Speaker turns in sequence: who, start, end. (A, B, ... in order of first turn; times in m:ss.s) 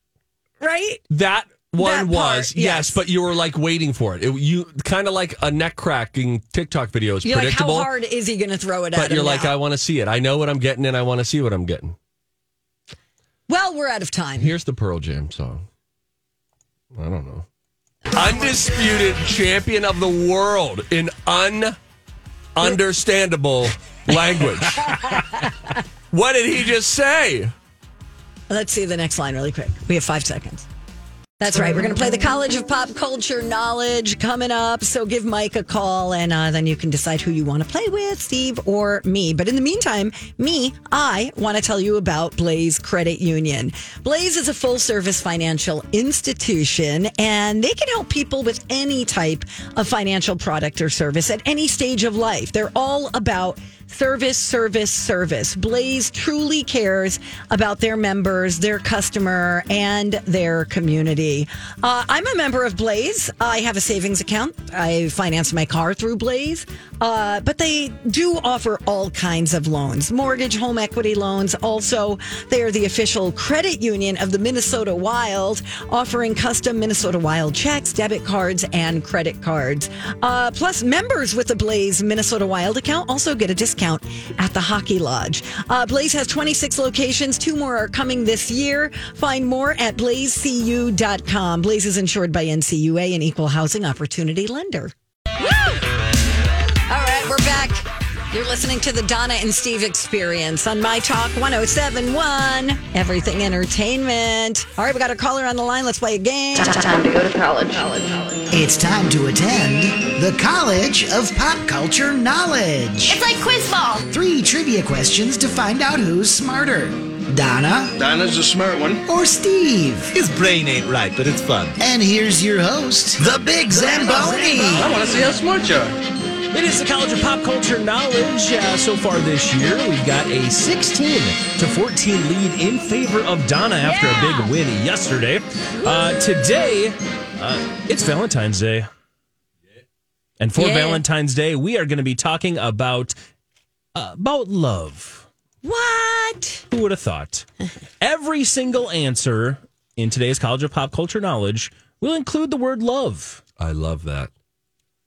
0:00.6-0:01.0 A
0:01.1-0:07.9 B
0:01.8-0:03.0 A
0:07.2-0:09.5 A
0:08.9-0:12.0 B
0:13.5-0:14.5 A
0:14.4-0:15.6 B
0:16.9-0:17.4 B
0:18.1-0:21.8 B
0:22.5-0:25.2 B
0:25.1-0:25.3 A
0:26.1-0:27.5 B
0:28.5-0:30.6 A
0:31.4-1:35.8 A
1:36.9-1:46.9 A
1:46.7-1:48.3 C
1:48.5-1:53.2 D
1:53.1-1:54.0 C
1:54.0-1:58.0 D
1:58.0-1:59.0 E
1:59.0-2:00.1 D
2:00.1-2:01.8 E
2:01.8-2:04.9 D
2:03.2-2:05.9 E
2:06.5-2:18.9 F
2:13.8-2:14.5 A
2:20.4-2:23.1 F
2:20.6-2:21.0 A
2:23.9-2:25.3 F
2:25.6-2:26.6 A
2:26.7-2:27.4 F
2:28.0-2:33.4 F
2:33.6-2:34.3 B